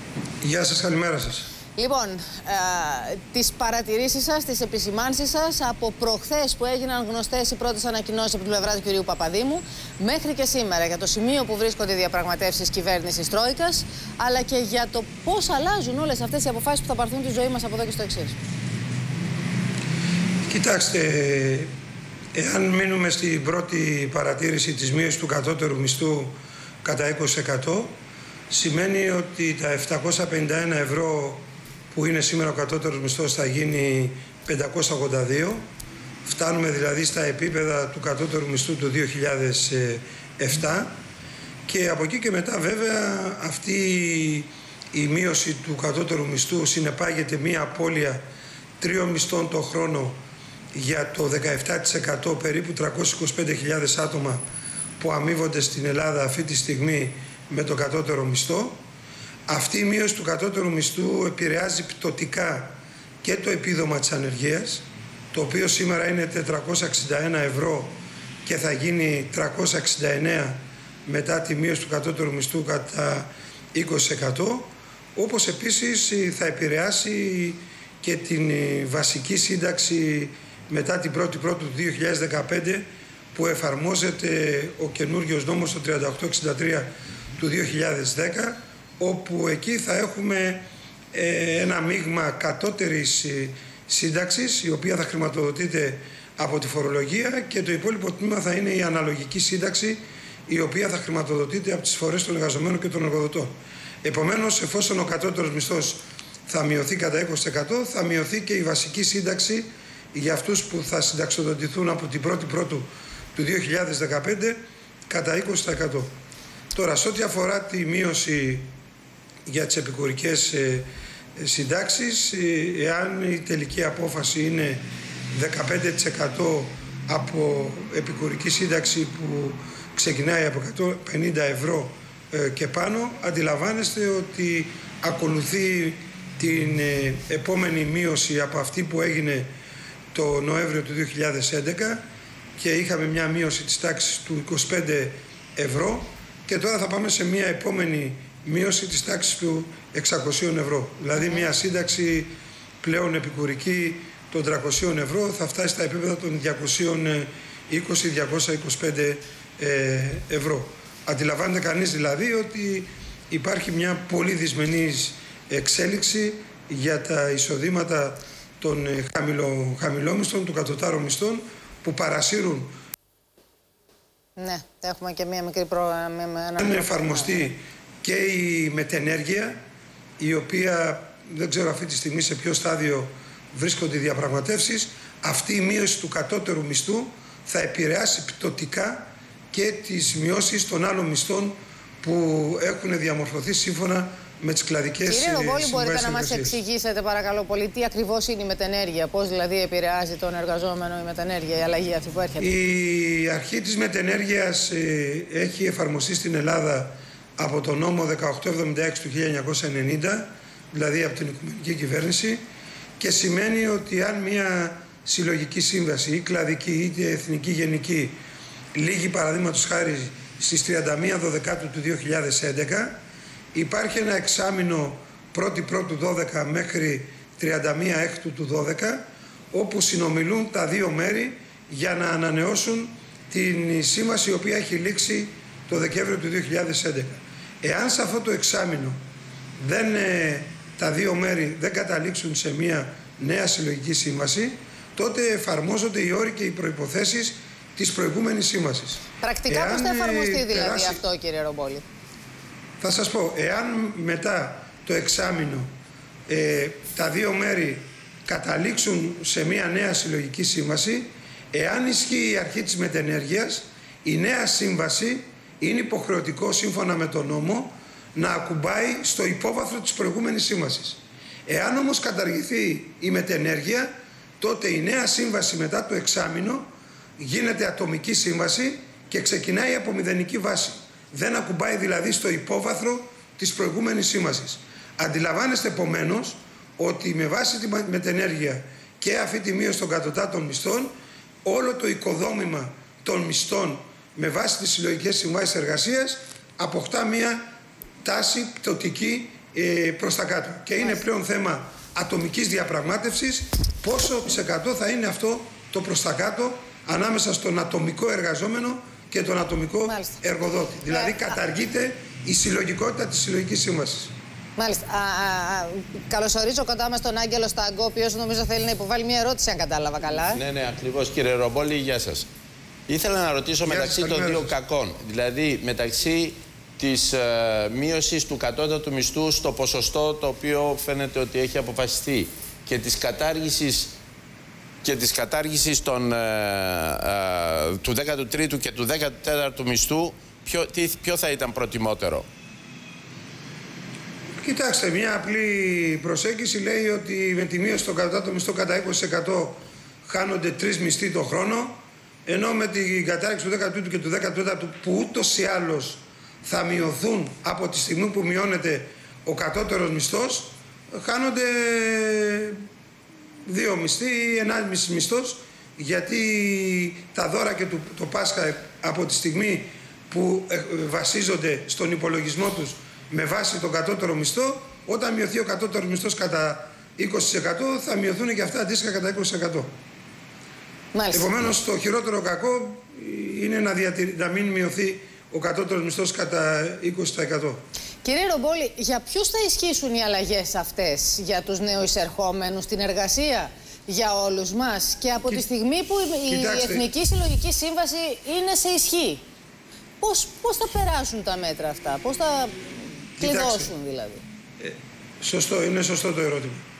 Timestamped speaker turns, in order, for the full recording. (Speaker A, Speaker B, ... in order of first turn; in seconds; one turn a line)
Speaker A: 0.4-1.5
Speaker B: 1.8-18.4
Speaker A: 20.5-21.7
Speaker A: 22.3-27.9
Speaker A: 28.5-35.7
Speaker A: 36.2-40.9
Speaker A: 41.7-48.2
Speaker A: 48.8-50.2
Speaker A: 50.7-54.4
Speaker A: 55.0-58.8
Speaker A: 59.5-114.6
Speaker A: 115.1-116.1
Speaker A: 116.7-118.7
Speaker A: 119.5-139.5
Speaker A: 140.1-142.0
Speaker A: 142.6-172.7
Speaker B: 151.2-151.4
Speaker B: 174.4-177.5
Speaker A: 176.6-179.6
Speaker A: 180.2-196.6
Speaker B: 195.0-202.5
Speaker A: 202.4-212.4
Speaker A: 213.0-218.2
Speaker A: 218.7-223.0
Speaker A: 223.5-239.0
Speaker A: 239.6-251.0
Speaker B: 249.2-251.8
Speaker A: 252.8-255.7
Speaker A: 256.3-290.9
Speaker A: 291.4-297.5
Speaker A: 298.0-314.1
Speaker B: 309.8-310.2
Speaker B: 310.9-311.2
Speaker B: 314.6-320.4
Speaker C: 320.3-322.3
Speaker C: 322.9-333.9
Speaker A: 323.6-324.5
Speaker C: 334.8-342.2
Speaker A: 344.4-362.6
Speaker A: 363.4-379.7
Speaker B: 380.9-381.3
Speaker A: 381.1-387.6
Speaker B: 388.0-399.2
Speaker A: 396.3-396.9
Speaker B: 400.0-404.2
Speaker A: 403.2-403.7
Speaker A: 404.6-406.6